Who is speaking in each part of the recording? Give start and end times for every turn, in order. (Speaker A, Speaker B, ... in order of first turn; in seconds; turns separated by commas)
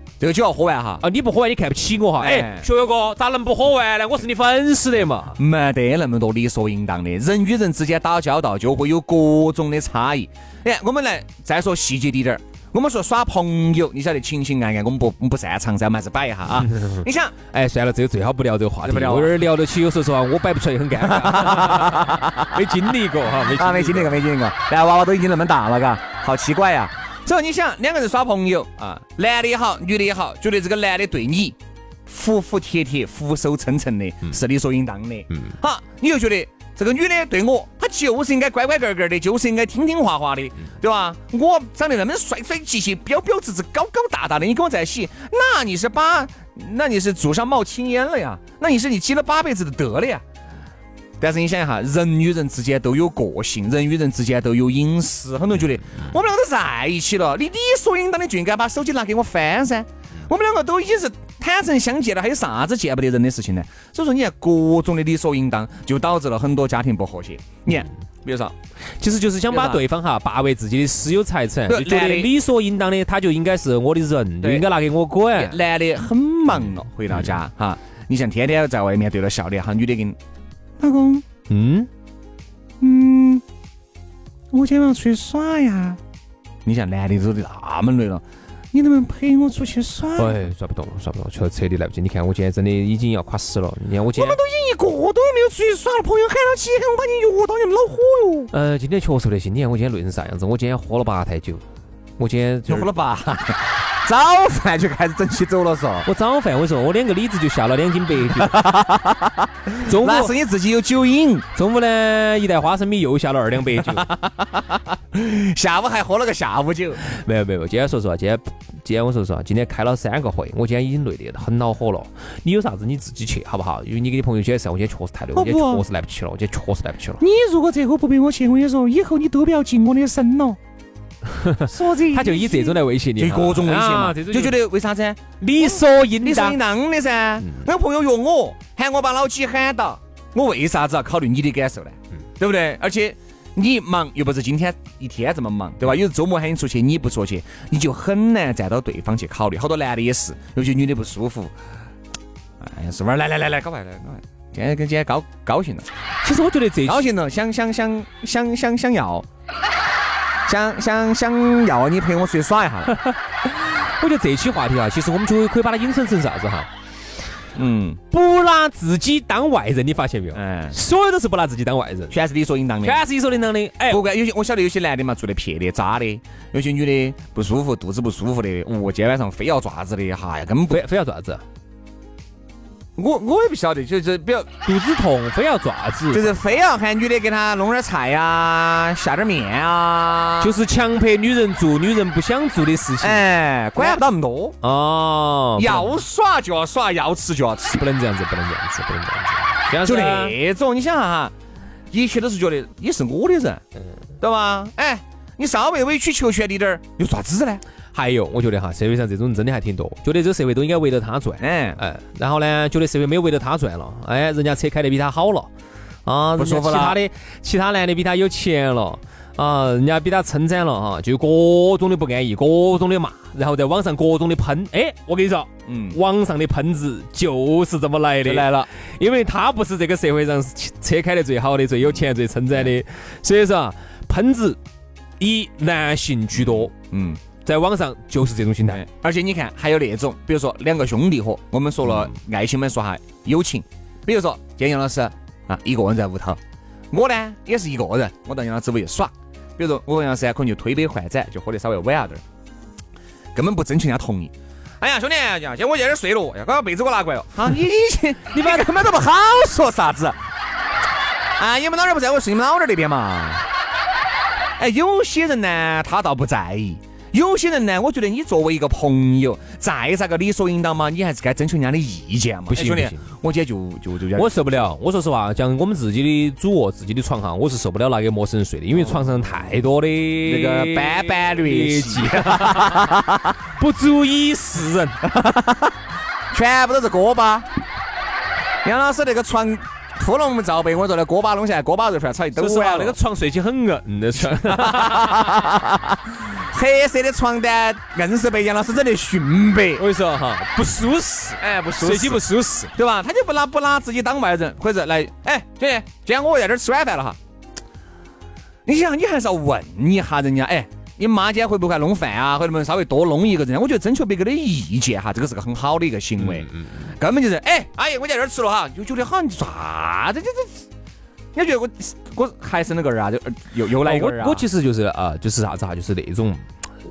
Speaker A: 0.2-1.0, Speaker B: 1.0-5.4, Speaker A: 2.2-2.6, Speaker A: 5.4-17.4, Speaker B: 16.7-24.2, Speaker A: 18.8-19.4, Speaker A: 21.0-22.5, Speaker A: 23.5-50.2, Speaker A: 51.2-68.5, Speaker B: 69.0-75.6, Speaker A: 69.5-69.8, Speaker A: 71.7-72.3, Speaker A: 74.4-74.7, Speaker A: 75.3-80.2, Speaker A: 80.8-81.2, Speaker B: 81.5-81.9, Speaker A: 82.8-83.4, Speaker A: 84.5-86.0, Speaker A: 86.6-90.4, Speaker B: 90.2-94.4, Speaker A: 94.1-98.5, Speaker B: 98.5-101.6, Speaker B: 102.2-102.9, Speaker A: 102.7-106.1, Speaker B: 106.0-108.6, Speaker A: 108.4-111.4, Speaker B: 109.8-110.3, Speaker B: 111.5-114.0, Speaker A: 113.8-117.0, Speaker B: 117.0-127.2, Speaker A: 125.3-125.8, Speaker A: 127.2-130.6, Speaker B: 131.3-134.5, Speaker A: 131.7-151.5, Speaker B: 135.4-136.6, Speaker A: 152.6-155.9, Speaker B: 156.2-157.0, Speaker A: 156.8-159.2, Speaker A: 160.5-162.9, Speaker B: 163.0-166.7, Speaker A: 167.5-168.0, Speaker B: 168.1-172.1, Speaker A: 170.3-170.8, Speaker A: 172.1-173.0, Speaker B: 172.8-174.0, Speaker A: 173.9-180.8, Speaker B: 180.7-181.4, Speaker A: 183.0-184.5, Speaker B: 184.6-186.3, Speaker A: 186.1-190.5, Speaker B: 190.4-193.2, Speaker A: 193.0-194.6, Speaker B: 194.6-196.0, Speaker A: 195.6-197.8, Speaker B: 197.7-200.3, Speaker A: 199.8-201.3, Speaker A: 201.9-203.6, Speaker A: 204.2-207.6, Speaker B: 207.9-215.5, Speaker A: 211.4-211.8, Speaker B: 216.1-234.6, Speaker A: 216.4-217.0, Speaker A: 225.7-226.0, Speaker A: 228.2-228.7, Speaker B: 235.2-236.7, Speaker A: 236.5-237.2, Speaker B: 237.4-238.8, Speaker A: 238.7-246.4, Speaker A: 246.9-252.2, Speaker A: 253.3-260.2, Speaker B: 258.3-258.7, Speaker A: 261.4-263.4, Speaker A: 264.6-274.3, Speaker B: 272.5-273.1, Speaker B: 274.1-282.9, Speaker A: 278.7-279.1, Speaker A: 280.2-283.3, Speaker B: 283.6-285.0, Speaker A: 285.0-285.7, Speaker A: 286.3-287.5, Speaker A: 288.6-292.9, Speaker B: 292.4-295.4, Speaker A: 294.2-299.8, Speaker B: 299.8-302.7, Speaker A: 301.4-302.2, Speaker A: 302.7-307.2, Speaker A: 308.6-320.6, Speaker B: 316.2-316.8, Speaker A: 321.3-324.4, Speaker B: 323.8-326.4